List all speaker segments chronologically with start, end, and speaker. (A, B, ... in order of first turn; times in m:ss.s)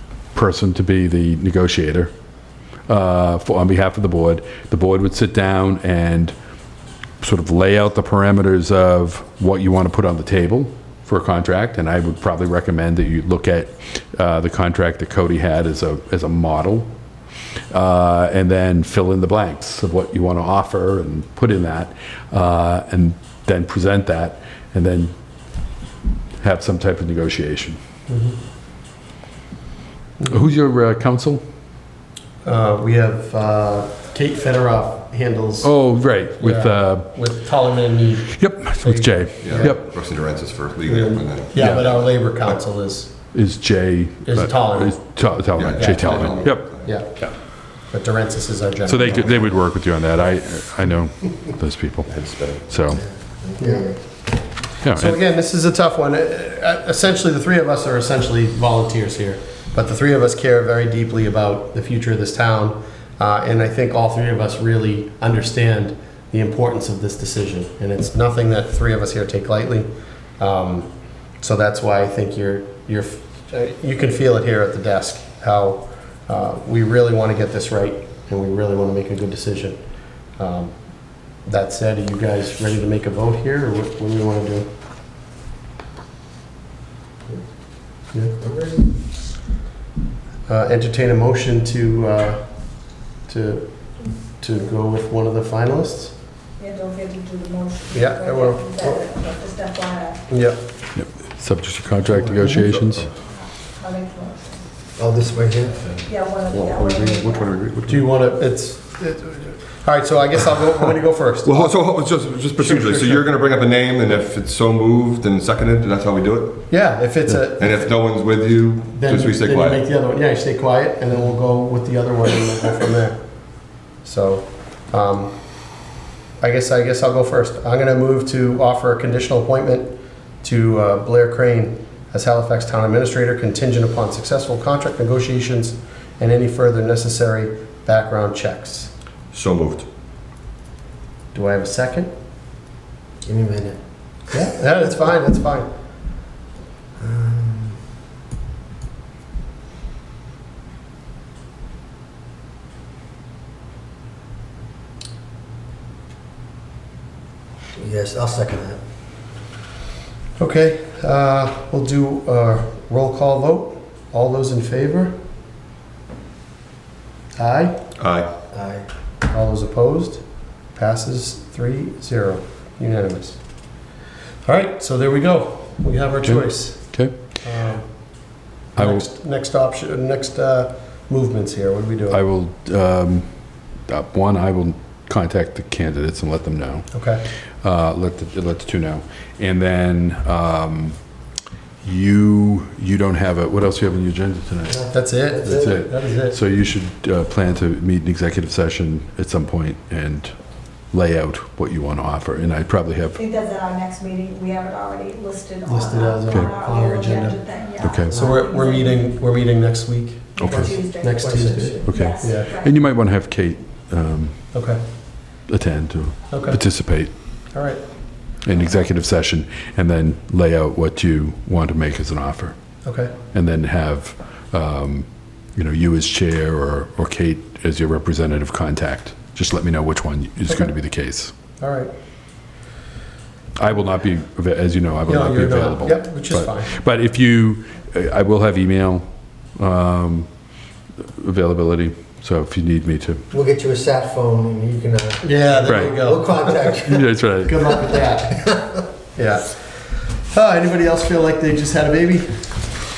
0:00.3-0:02.1 A
0:02.9-0:06.3 A
0:07.2-0:16.9 A
0:17.7-0:25.1 A
0:26.4-0:27.8 A
0:28.1-0:28.4 B
0:30.3-0:31.4 A
0:32.4-0:35.7 B
0:35.6-0:37.1 A
0:36.4-0:39.9 B
0:38.3-0:39.8 A
0:39.4-0:42.1 C
0:40.9-0:43.2 B
0:41.6-0:41.9 A
0:43.3-0:47.4 A
0:44.2-0:49.6 B
0:45.6-0:47.0 C
0:48.8-0:52.1 A
0:49.0-0:49.4 C
0:52.1-0:52.8 C
0:52.6-0:53.0 A
0:53.0-0:54.0 D
0:53.6-0:54.0 B
0:54.8-0:55.2 A
0:54.9-1:19.8 B
1:20.4-1:24.7 B
1:28.4-1:28.9 D
1:30.5-1:36.2 B
1:36.6-1:40.2 E
1:37.9-1:38.7 B
1:40.3-1:40.6 B
1:40.9-1:43.1 A
1:42.5-1:43.1 C
1:43.2-1:44.6 E
1:45.0-1:45.8 D
1:46.0-1:47.5 E
1:46.4-1:48.1 C
1:47.9-1:51.8 B
1:51.4-1:56.7 C
1:52.6-1:53.2 B
1:56.7-1:57.9 B
1:57.4-1:59.9 C
1:58.9-2:03.2 B
2:03.8-2:05.7 B
2:06.4-2:18.9 B
2:19.3-2:19.9 C
2:21.3-2:22.1 B
2:23.2-2:23.8 D
2:24.3-2:25.7 B
2:27.0-2:27.8 D
2:37.8-2:38.8 D
2:40.4-2:45.2 B
2:47.4-2:47.9 B
2:48.0-2:48.3 C
2:48.5-2:48.9 D
2:49.3-2:53.7 B
2:54.4-3:02.2 B
2:56.2-2:57.2 A
2:58.8-2:59.0 A
3:02.1-3:03.3 A
3:03.9-3:06.9 A
3:06.9-3:07.2 B
3:07.6-3:11.0 A
3:11.8-3:14.8 A
3:14.7-3:15.7 D
3:14.9-3:16.4 B
3:15.4-3:20.4 A
3:20.9-3:23.2 A
3:23.2-3:29.0 E
3:25.6-3:27.6 B
3:27.8-3:28.2 A
3:28.1-3:28.4 D
3:28.1-3:32.5 B
3:30.4-3:32.8 E
3:30.4-3:30.8 A
3:30.5-3:31.9 D
3:31.9-3:34.4 A
3:34.5-3:34.8 B
3:35.5-3:37.2 A
3:36.3-3:36.6 B
3:37.5-3:37.8 B
3:38.4-3:42.6 A
3:42.8-3:43.1 B
3:43.3-3:51.3 A
3:50.5-3:50.7 B
3:51.6-3:51.9 B
3:53.6-4:00.3 A
3:55.1-3:56.7 B
4:01.0-4:03.2 A
4:03.3-4:07.1 D
4:05.2-4:06.8 B
4:05.7-4:06.1 A
4:06.8-4:07.6 A
4:07.4-4:12.7 B